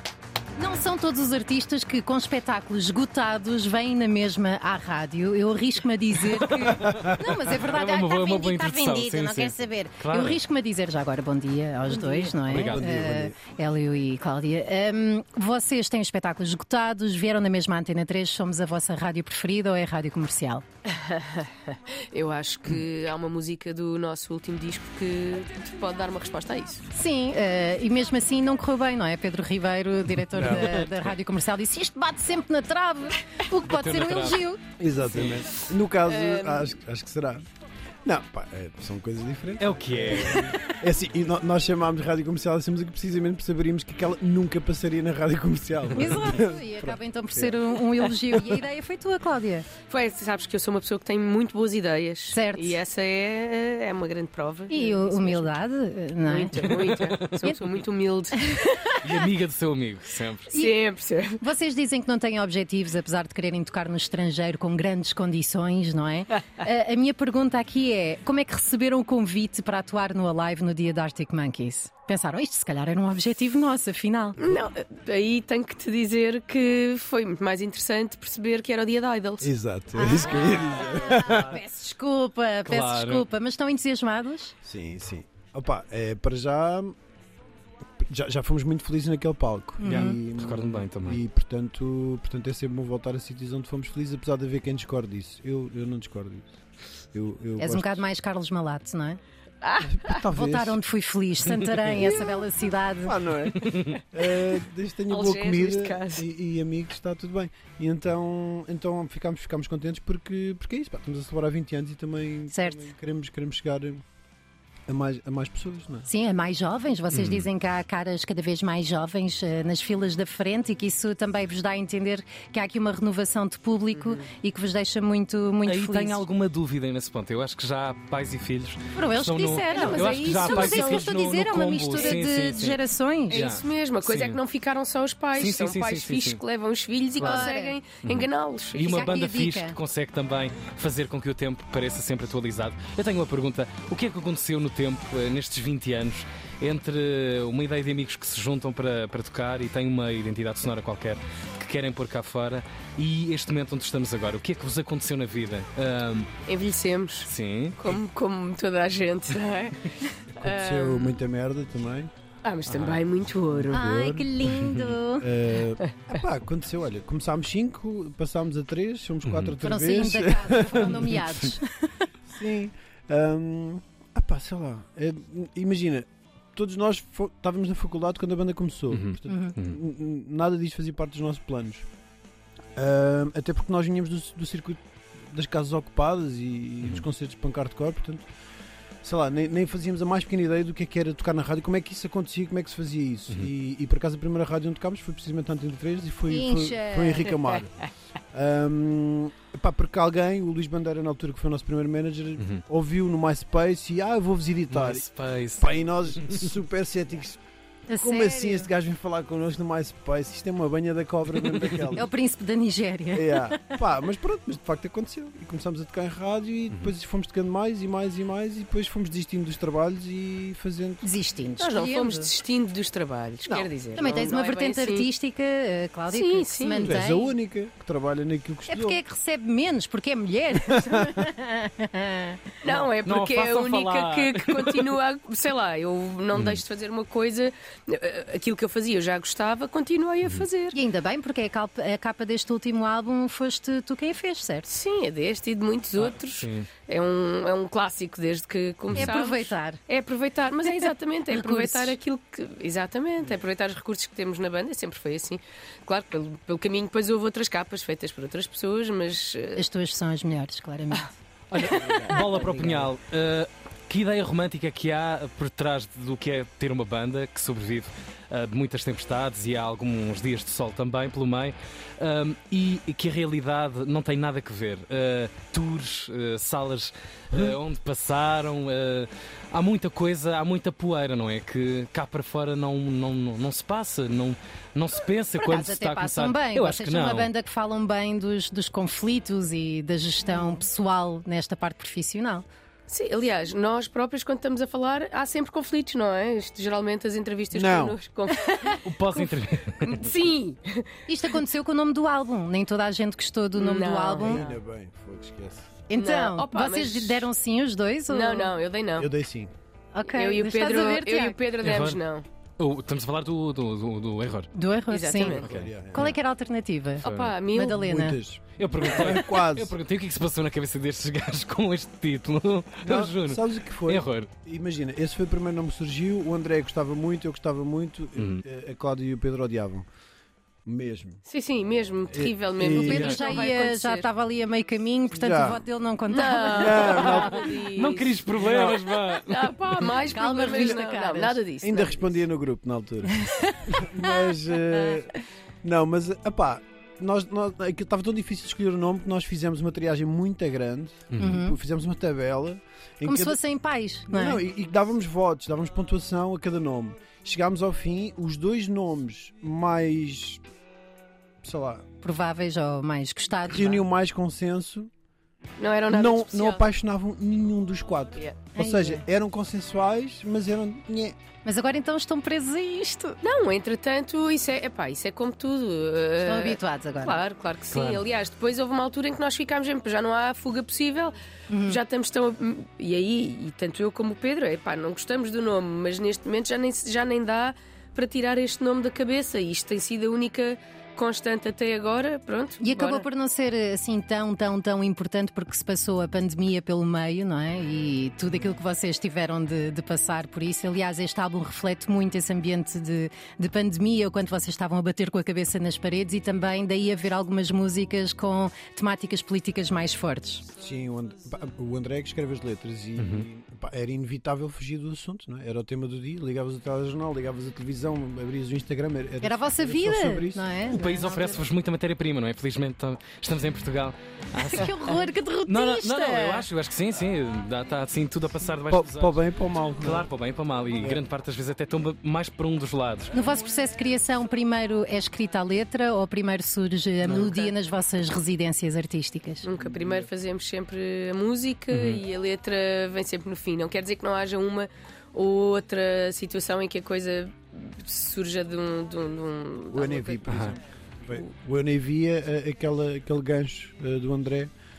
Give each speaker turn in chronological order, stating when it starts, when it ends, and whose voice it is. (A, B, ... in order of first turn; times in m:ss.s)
0:00.6-0:20.6 A
0:06.4-0:07.0 B
0:06.7-0:07.4 C
0:07.6-0:10.4 B
0:11.9-0:12.4 D
0:12.4-0:12.9 B
0:12.5-0:13.4 C
0:20.8-0:26.8 D
0:26.9-0:34.6 A
0:30.3-0:30.8 C
0:30.4-0:30.6 B
0:33.6-0:34.4 B
0:34.8-0:37.4 C
0:35.1-0:35.5 B
0:36.0-0:36.7 D
0:38.0-0:48.2 C
0:39.6-0:40.6 B
0:45.9-0:49.7 A
0:49.9-0:55.6 D
0:52.3-0:52.8 A
0:54.7-0:56.9 A
0:56.2-0:58.9 D
0:56.7-0:57.4 B
0:58.4-0:59.1 A
0:59.0-1:00.5 B
1:00.5-1:01.4 D
1:01.4-1:14.4 A
1:14.4-1:19.5 D
1:19.4-1:21.6 C
1:19.9-1:24.5 A
1:22.6-1:23.3 B
1:24.6-1:26.9 C
1:28.1-1:36.5 C
1:29.8-1:30.2 A
1:29.8-1:31.2 B
1:37.1-1:38.0 C
1:37.6-1:39.2 A
1:39.6-1:40.2 D
1:39.8-1:40.8 C
1:40.3-1:43.2 A
1:42.1-1:42.4 D
1:43.0-1:54.0 C
1:43.6-1:44.0 B
1:45.1-1:46.2 D
1:52.5-1:52.9 A
1:54.9-1:56.1 C
1:56.1-2:06.2 A
1:57.1-1:57.5 B
2:03.9-2:04.2 D
2:05.6-2:12.8 B
2:08.9-2:13.4 A
2:09.7-2:11.1 D
2:13.3-2:19.0 D
2:13.3-2:14.4 B
2:15.3-2:16.4 B
2:17.2-2:17.5 B
2:17.2-2:17.8 A
2:18.0-2:36.3 B
2:18.8-2:19.8 A
2:36.4-2:41.2 D
2:37.2-2:38.0 B
2:40.4-2:42.1 C
2:42.4-2:43.8 D
2:42.7-2:43.0 B
2:43.5-2:44.4 C
2:43.7-2:45.3 A
2:44.6-2:44.9 B
2:45.2-2:51.3 C
2:49.2-2:49.5 B
2:49.6-2:52.1 A
2:52.3-3:01.8 C
2:58.9-2:59.8 B
2:59.3-2:59.5 A
3:02.8-3:08.2 C
3:09.0-3:17.7 C
3:16.3-3:17.4 A
3:18.3-3:27.4 C
3:22.4-3:22.6 B
3:24.7-3:25.7 B
3:26.2-3:26.5 B
3:27.9-3:28.7 A
3:27.9-3:32.1 C
3:31.4-3:31.9 B
3:31.9-3:33.8 A
3:33.1-3:41.0 C
3:41.0-3:42.3 A
3:41.6-3:45.1 D
3:43.9-3:47.3 A
3:46.1-3:47.0 D
3:46.8-3:49.0 C
3:48.7-3:52.4 A
3:50.7-3:51.1 C
3:52.6-4:00.8 D
3:52.6-3:54.9 B
3:56.3-3:56.6 B
4:00.7-4:04.7 A
4:04.7-4:19.6 D
4:06.0-4:06.7 B
4:08.9-4:09.8 A
4:10.8-4:11.9 A
4:19.6-4:21.1 A
4:21.5-4:47.3 B
4:21.6-4:22.9 C
4:45.4-4:52.5 A
4:52.9-4:58.8 D
4:57.5-4:58.0 C
4:58.8-5:00.1 B
4:59.8-5:01.4 D
5:01.1-5:04.4 A
5:03.6-5:04.5 D
5:04.2-5:05.7 C
5:05.9-5:08.5 A
5:06.0-5:07.3 D
5:08.1-5:09.1 D
5:09.0-5:09.5 C
5:09.9-5:11.4 A
5:10.1-5:12.2 D
5:11.6-5:12.0 B
5:12.6-5:14.5 B
5:14.5-5:15.4 A
5:14.9-5:15.5 D
5:15.4-5:16.1 C
5:15.4-5:16.2 B
5:15.9-5:18.2 A
5:17.0-5:17.3 B
5:17.0-5:17.8 D
5:17.7-5:19.8 C
5:18.6-5:24.3 B
5:22.8-5:29.8 C
5:28.2-5:28.4 B
5:30.6-5:31.2 C
5:31.3-5:34.0 D
5:32.1-5:33.0 C
5:32.8-5:37.4 A
5:32.9-5:33.4 B
5:35.1-5:35.6 C
5:36.1-5:42.2 D
5:36.5-5:37.4 C
5:36.9-5:39.5 B
5:38.4-5:38.8 C
5:40.0-5:41.4 A
5:41.6-5:53.4 C
5:43.1-5:44.4 A
5:51.1-5:51.4 B
5:51.2-5:51.6 A
5:53.0-5:54.4 A
5:54.1-6:00.4 C
6:01.4-6:01.8 C
6:02.0-6:03.8 A
6:03.5-6:04.9 C
6:05.6-6:06.6 D
6:05.9-6:11.2 C
6:08.5-6:09.0 A
6:11.4-6:13.2 A
6:13.2-6:33.0 D
6:16.2-6:17.2 A
6:17.7-6:18.0 B
6:21.5-6:21.8 A
6:32.6-6:50.4 A
6:50.6-7:00.6 C
6:53.0-6:53.2 B
6:59.2-7:01.4 A
7:00.7-7:04.9 B
7:04.3-7:06.5 A
7:05.5-7:09.2 B
7:08.7-7:10.1 C
7:09.8-7:13.1 B
7:13.1-7:19.4 A
7:17.0-7:17.5 D
7:19.4-7:30.5 D
7:19.6-7:20.1 C
7:21.7-7:22.0 B
7:29.7-7:34.5 C
7:30.3-7:30.5 B